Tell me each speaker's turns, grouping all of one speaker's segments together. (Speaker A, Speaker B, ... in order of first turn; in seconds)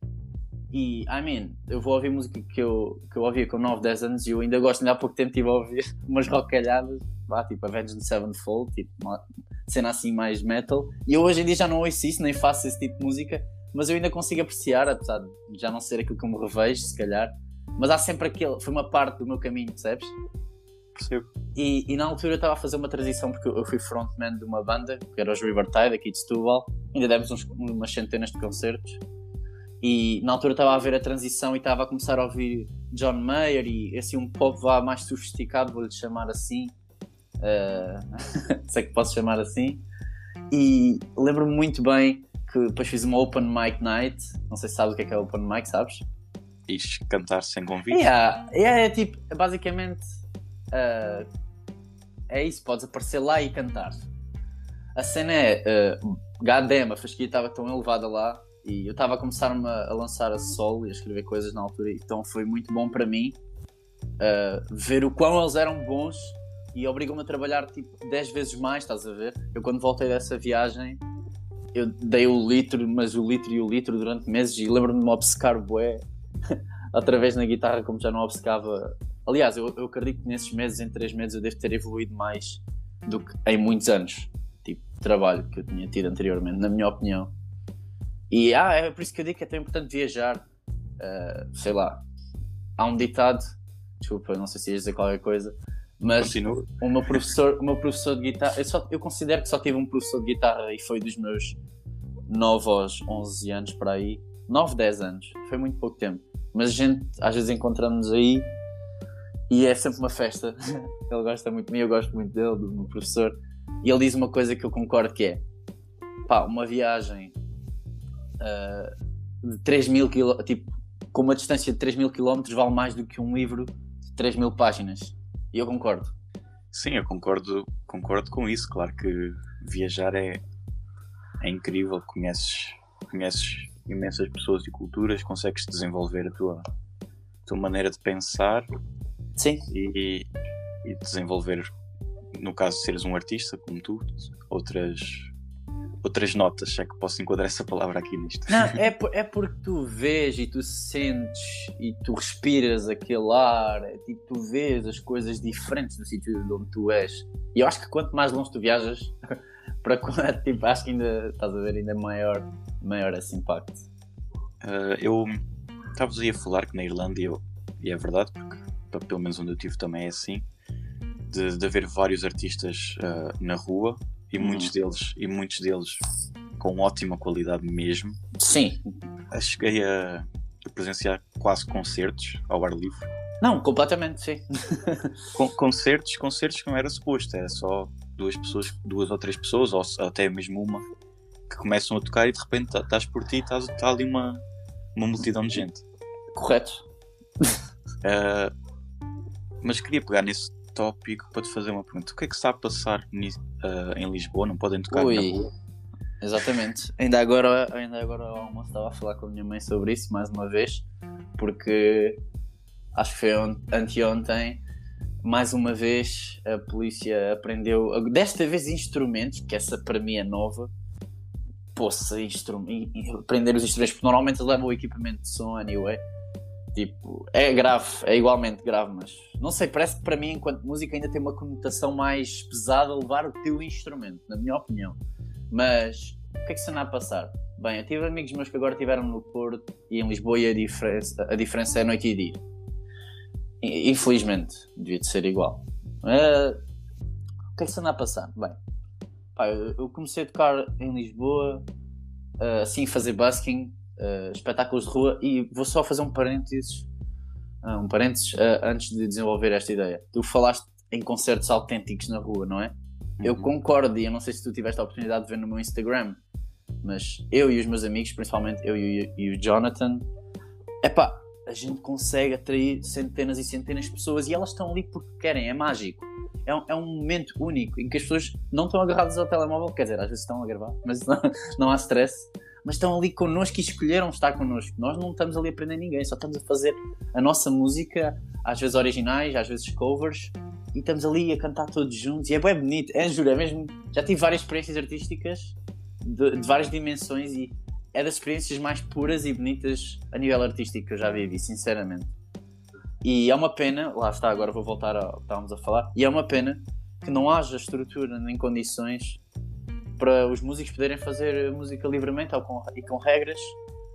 Speaker A: 0.7-20.1, 21.5-29.0, 29.8-36.7, 37.4-39.8, 40.5-46.0, 47.9-50.0, 50.7-51.3, 52.3-54.1, 55.0-63.4, 64.2-71.0, 71.7-87.3, 88.3-90.5, 91.0-92.0, 92.8-93.4, 94.0-101.6, 102.3-108.5, 109.5-115.4, 116.3-117.3, 118.4-126.1, 139.4-139.7, 148.5-159.1, 159.8-163.8, 174.4-174.7, 178.4-178.9, 183.4-185.2, 196.3-196.8, 204.9-205.5, 206.2-210.8, 211.4-212.2, 212.9-214.6, 215.2-220.7, 221.7-226.0, 226.7-235.0, 235.5-242.4, 243.6-246.6, 247.5-248.6, 249.3-251.6, 252.4-256.9, 257.6-266.2, 266.8-270.0, 270.8-302.1, 303.0-309.2, 310.0-313.6
Speaker B: 20.9-21.3, 46.7-48.1, 96.2-97.3, 126.7-130.4, 131.4-136.6, 137.4-138.7, 139.7-140.3, 140.8-141.7, 142.3-145.3, 146.0-148.8, 164.6-165.4, 165.9-170.5, 171.3-176.0, 176.6-178.2, 179.3-183.1, 185.3-190.8, 191.5-194.4, 194.9-195.8, 198.0-198.5, 199.6-205.5, 263.2-263.5